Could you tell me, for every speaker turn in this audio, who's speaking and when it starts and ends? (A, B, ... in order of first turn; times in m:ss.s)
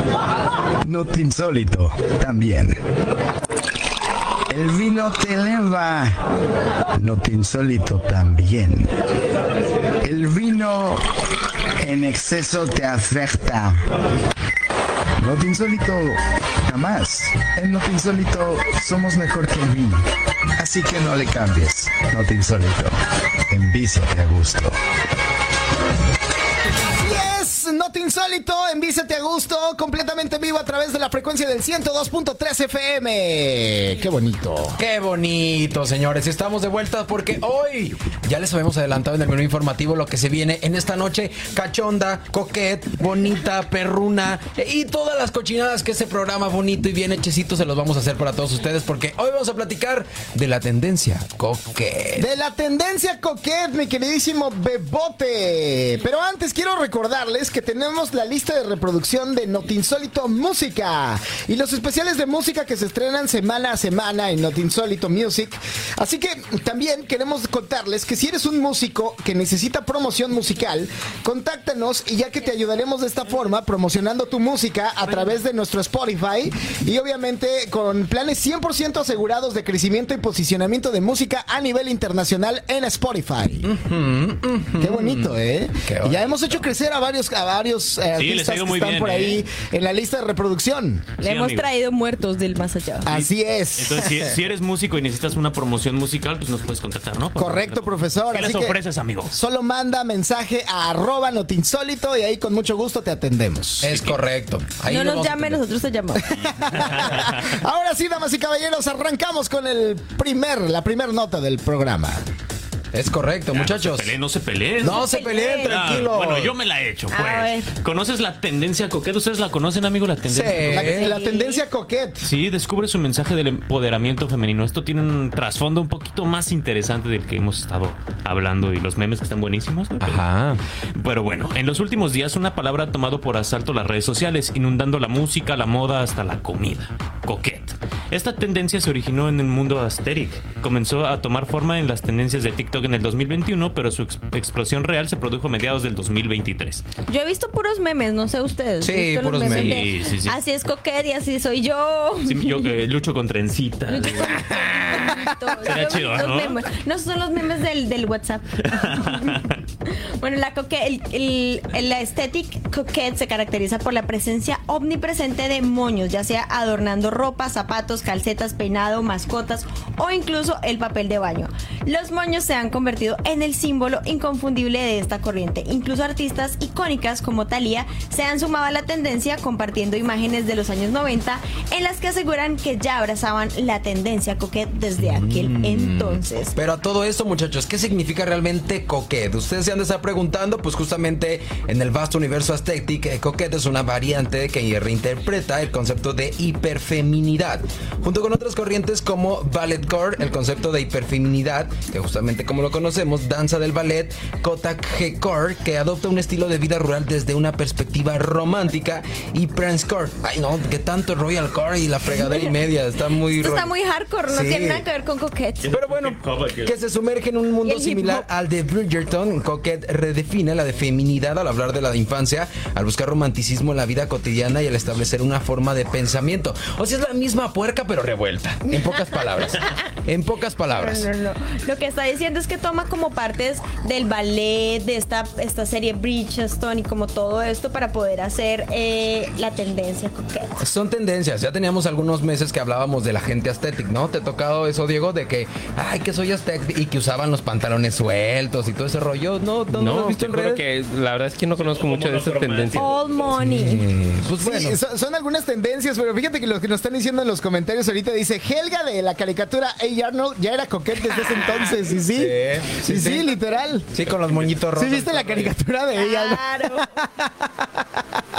0:00.8-0:02.8 A
0:04.5-0:06.2 A
0:07.0-0:08.9 A
0:10.0-0:11.0 A
0:11.8-0:13.8 A
0:15.2-0:20.0 A
0:20.6-0:22.9 A
0:23.5-0:24.7 A
0:26.9-0:34.8 B
0:34.8-0:52.3 C
0:52.2-1:23.7 B
1:23.6-1:26.6 C
1:24.8-1:31.1 B
1:28.1-1:29.4 D
1:31.2-1:33.1 E
1:31.2-1:31.7 D
1:33.0-1:34.1 B
1:33.1-1:39.3 D
1:37.4-1:38.8 B
1:39.3-1:43.9 B
1:43.8-1:45.6 C
1:43.9-1:44.2 D
1:44.9-1:46.3 E
1:46.2-1:52.2 B
1:46.8-1:47.3 D
1:52.9-1:54.1 C
1:53.5-2:00.9 D
1:54.8-1:56.5 C
1:54.8-1:55.8 E
1:57.1-1:57.7 E
2:00.3-2:01.1 C
2:00.6-2:02.3 B
2:00.8-2:01.6 E
2:02.2-2:10.2 D
2:10.0-2:10.6 C
2:10.9-2:26.8 D
2:27.1-2:32.7 E
2:28.8-2:29.8 C
2:29.4-2:30.4 D
2:32.2-2:34.4 D
2:33.9-3:06.5 E
2:34.3-2:35.3 C
2:35.6-2:36.6 D
2:38.7-2:39.5 D
3:05.0-3:33.7 C
3:32.2-3:32.5 E
3:33.3-3:35.7 E
3:34.3-3:34.8 C
3:35.6-3:36.7 D
3:35.7-3:51.1 C
3:37.6-3:38.2 E
3:50.7-4:00.6 E
4:00.6-4:10.6 C
4:09.7-4:12.9 F
4:11.5-4:13.3 D
4:12.8-4:13.8 E
4:13.4-4:14.8 C
4:14.4-4:23.9 B
4:22.0-4:23.4 C
4:23.9-4:25.5 C
4:24.7-4:27.5 B
4:25.9-4:26.9 E